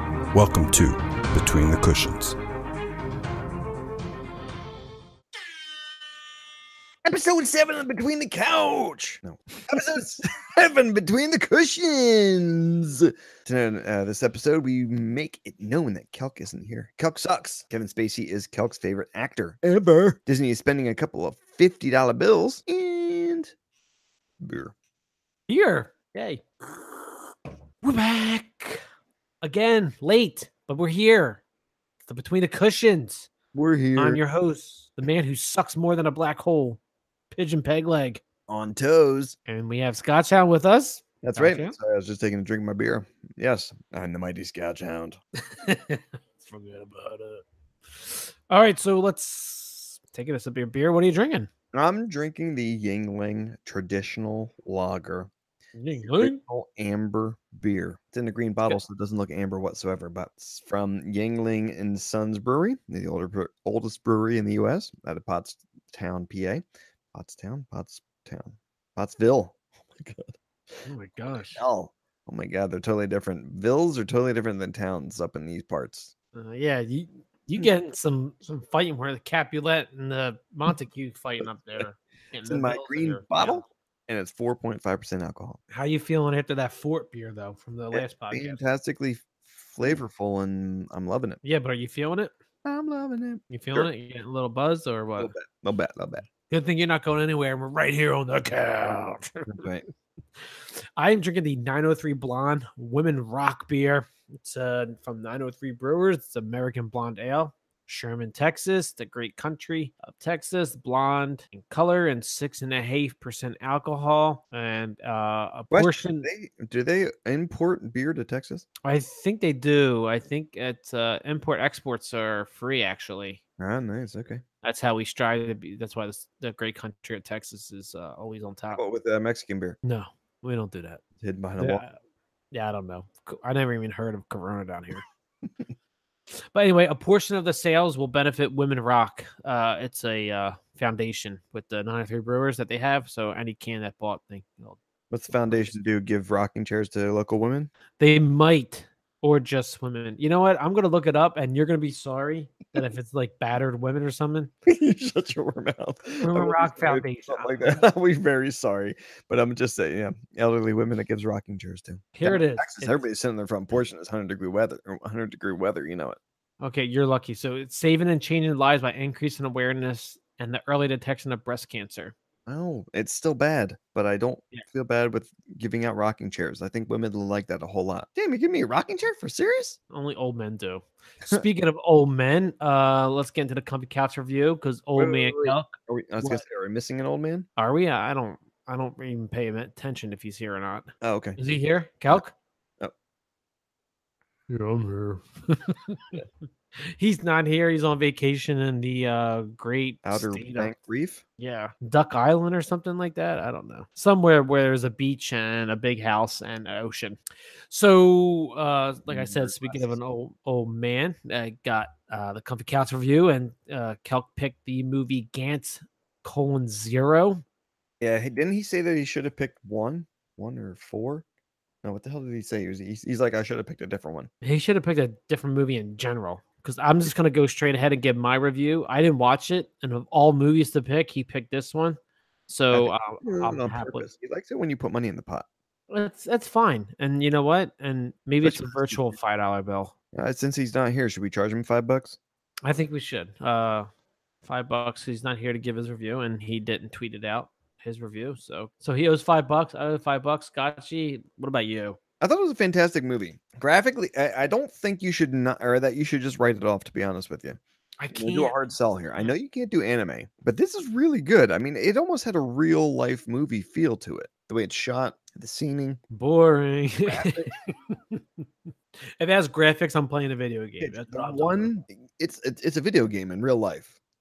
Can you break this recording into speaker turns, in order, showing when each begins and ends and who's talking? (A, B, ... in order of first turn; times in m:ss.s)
0:00.3-0:02.4 A
0:07.0-0:23.5 B
0:24.4-0:24.7 B
0:25.5-0:26.4 C
0:27.8-0:28.8 C
0:29.4-0:31.4 C
0:32.1-0:33.3 C
0:33.5-0:34.2 B
0:34.0-0:36.8 C
0:37.4-0:38.2 C
0:38.5-0:39.4 B
0:39.5-0:41.8 C
0:41.2-0:45.2 B
0:45.5-0:51.5 C
0:51.7-0:55.3 B
0:55.8-0:56.4 C
0:56.2-1:10.8 B
1:10.9-1:11.6 C
1:11.6-1:16.1 B
1:16.4-1:23.6 C
1:22.5-1:25.6 B
1:25.7-1:28.6 C
1:27.9-1:31.4 B
1:31.4-1:32.3 C
1:32.6-1:33.9 B
1:33.5-1:35.3 C
1:35.2-1:36.2 B
1:36.5-1:39.7 C
1:39.5-1:39.8 B
1:40.4-1:56.3 C
1:55.7-1:58.7 B
1:58.8-2:03.4 C
2:03.6-2:04.4 B
2:04.6-2:08.8 C
2:08.7-2:09.8 B
2:09.8-2:11.0 C
2:11.2-2:11.8 B
2:11.6-2:12.0 C
2:12.5-2:15.0 C
2:16.5-2:24.8 C
2:25.1-2:27.7 B
2:25.3-2:25.7 C
2:28.0-2:34.5 C
2:34.7-2:46.2 B
2:36.2-2:37.9 C
2:42.1-2:43.0 C
2:46.6-2:52.2 C
2:52.5-2:59.8 B
2:59.9-3:06.4 C
3:05.0-3:07.5 B
3:07.6-3:12.4 C
3:11.0-3:11.4 B
3:14.5-3:16.2 C
3:17.0-3:20.8 C
3:20.0-3:21.2 B
3:21.4-3:27.2 C
3:27.7-3:37.4 C
3:29.1-3:30.0 B
3:38.0-3:41.2 B
3:41.8-3:44.3 B
3:44.4-3:54.1 C
3:52.7-3:55.5 B
3:55.9-3:59.9 C
3:58.4-3:59.2 B
4:00.1-4:02.2 B
4:02.6-4:03.9 C
4:04.4-4:12.0 C
4:12.2-4:17.6 B
4:18.0-4:18.6 C
4:18.1-4:26.0 B
4:26.1-4:28.2 C
4:27.1-4:27.5 B
4:29.2-4:31.7 C
4:30.8-4:33.9 B